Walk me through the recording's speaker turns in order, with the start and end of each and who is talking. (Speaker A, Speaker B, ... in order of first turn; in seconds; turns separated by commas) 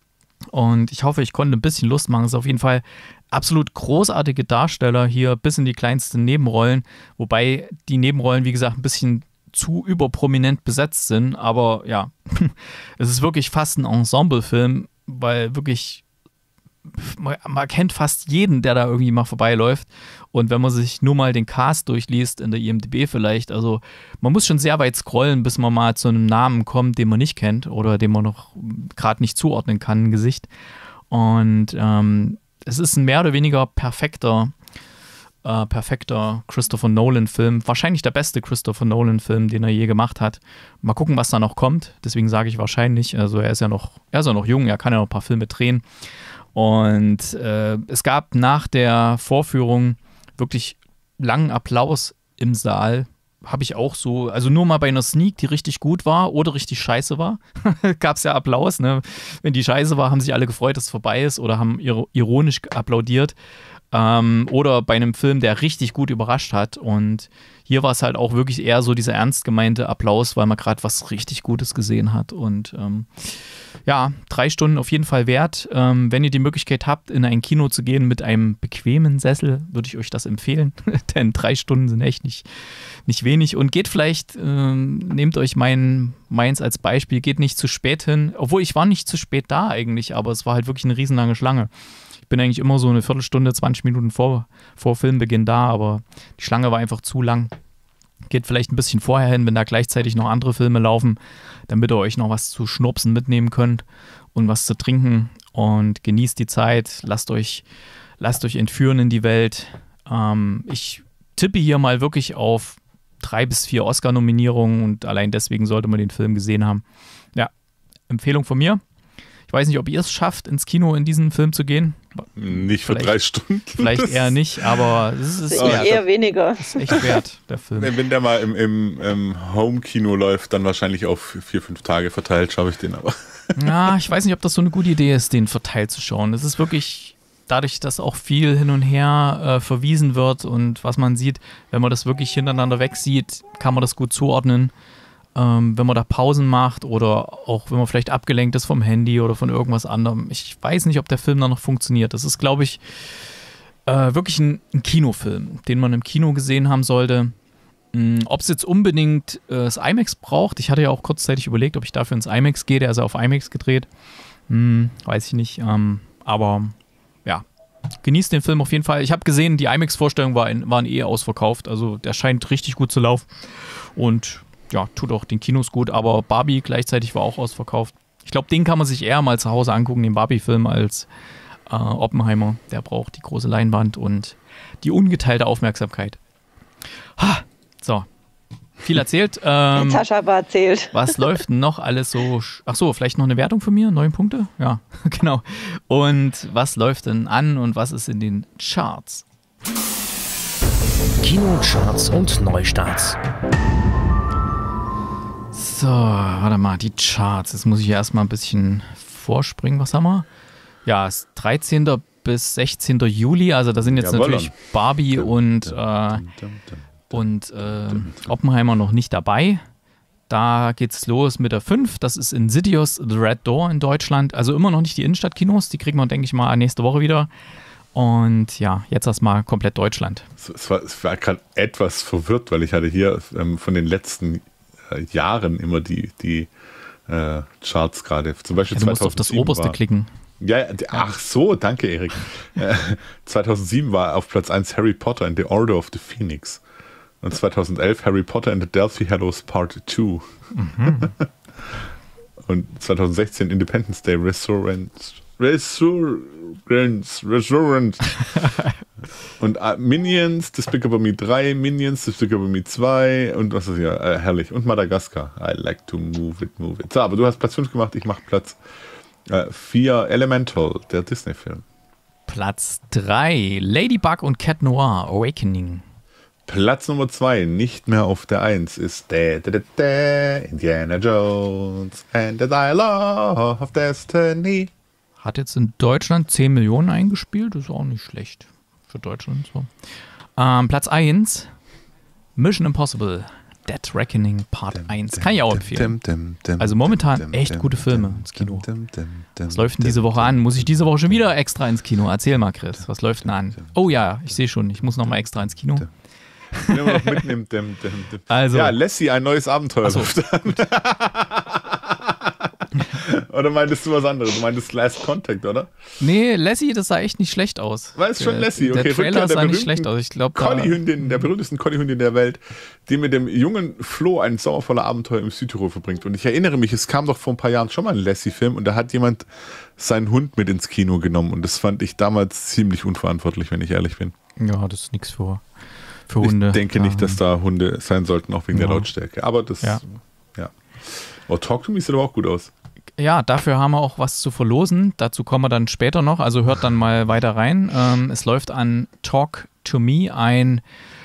Speaker A: 0.5-16.0, Speaker A: 16.9-30.5, Speaker A: 31.1-34.5, Speaker A: 35.4-45.8, Speaker A: 46.5-63.3, Speaker A: 63.9-82.5, Speaker A: 83.0-91.7, Speaker A: 92.3-97.5, Speaker A: 98.3-107.6, Speaker A: 108.2-116.8, Speaker A: 118.1-118.8, Speaker A: 119.5-123.1, Speaker B: 122.3-124.9, Speaker A: 123.7-126.0, Speaker C: 125.5-127.0, Speaker B: 125.6-126.0, Speaker A: 126.6-127.9, Speaker B: 126.9-127.2, Speaker B: 127.8-133.7, Speaker A: 133.6-144.7, Speaker A: 145.3-153.0, Speaker A: 153.8-157.3, Speaker A: 157.9-163.9, Speaker A: 164.5-167.4, Speaker A: 168.0-181.1, Speaker A: 181.7-186.2, Speaker A: 187.2-188.1, Speaker A: 188.8-190.0, Speaker C: 189.7-191.2, Speaker A: 190.9-199.2, Speaker D: 201.2-203.2, Speaker A: 205.5-210.3, Speaker A: 210.8-216.2, Speaker B: 213.8-214.6, Speaker B: 215.1-218.3, Speaker A: 217.1-219.6, Speaker A: 220.3-227.3, Speaker A: 227.9-230.3, Speaker B: 230.4-236.5, Speaker B: 237.1-239.8, Speaker A: 238.7-240.1, Speaker B: 240.4-246.6, Speaker B: 247.2-250.3, Speaker A: 250.5-251.1, Speaker B: 250.8-251.9, Speaker B: 252.4-258.1, Speaker A: 258.3-258.8, Speaker B: 259.4-268.6, Speaker B: 269.3-271.6, Speaker A: 272.3-275.8, Speaker B: 276.5-284.7, Speaker A: 285.2-289.7, Speaker A: 290.4-291.5, Speaker A: 292.4-296.0, Speaker B: 294.8-301.2, Speaker A: 296.6-298.7, Speaker A: 299.5-305.9, Speaker B: 303.2-303.6, Speaker A: 306.5-307.2, Speaker B: 306.6-315.7, Speaker A: 308.3-308.8, Speaker A: 309.8-310.5, Speaker A: 316.0-321.3, Speaker B: 317.9-334.1, Speaker A: 334.4-335.4, Speaker A: 336.1-337.2, Speaker B: 336.2-342.5, Speaker A: 338.5-338.9, Speaker A: 343.0-350.6